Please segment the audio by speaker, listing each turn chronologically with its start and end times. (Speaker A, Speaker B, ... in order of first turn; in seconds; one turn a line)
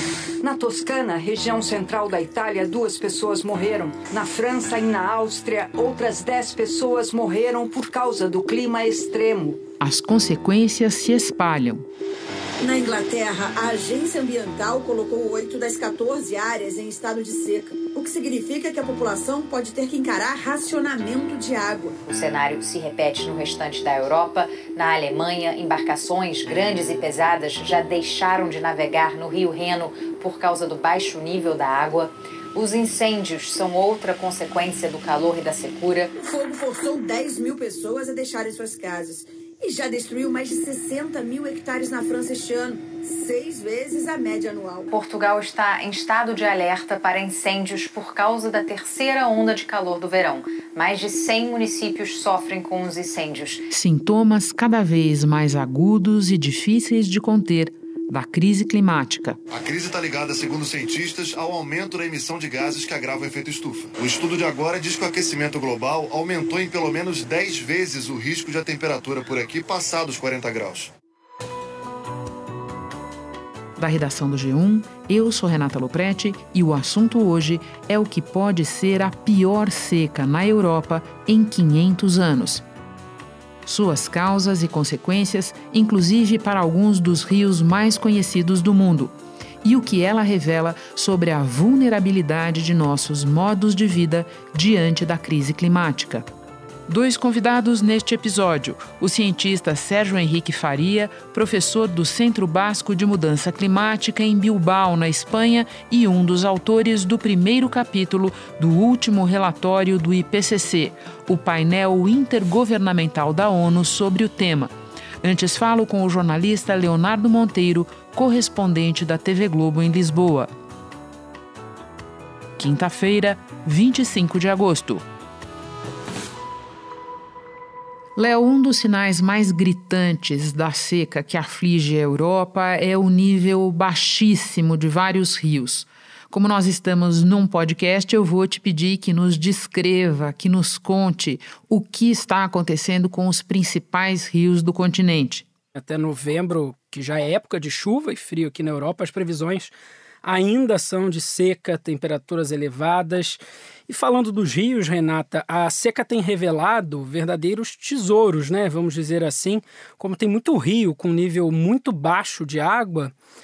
Speaker A: 0.4-9.6
Speaker B: 9.8-11.9
Speaker C: 12.6-22.0
Speaker D: 22.1-36.1
Speaker C: 36.2-44.9
Speaker D: 44.9-53.7
Speaker B: 53.7-59.4
Speaker E: 59.5-70.9
Speaker B: 73.8-82.6
Speaker B: 83.7-96.3
Speaker B: 96.9-120.5
Speaker B: 122.6-125.0
Speaker B: 128.2-145.4
Speaker F: 145.8-149.7
Speaker F: 150.2-163.1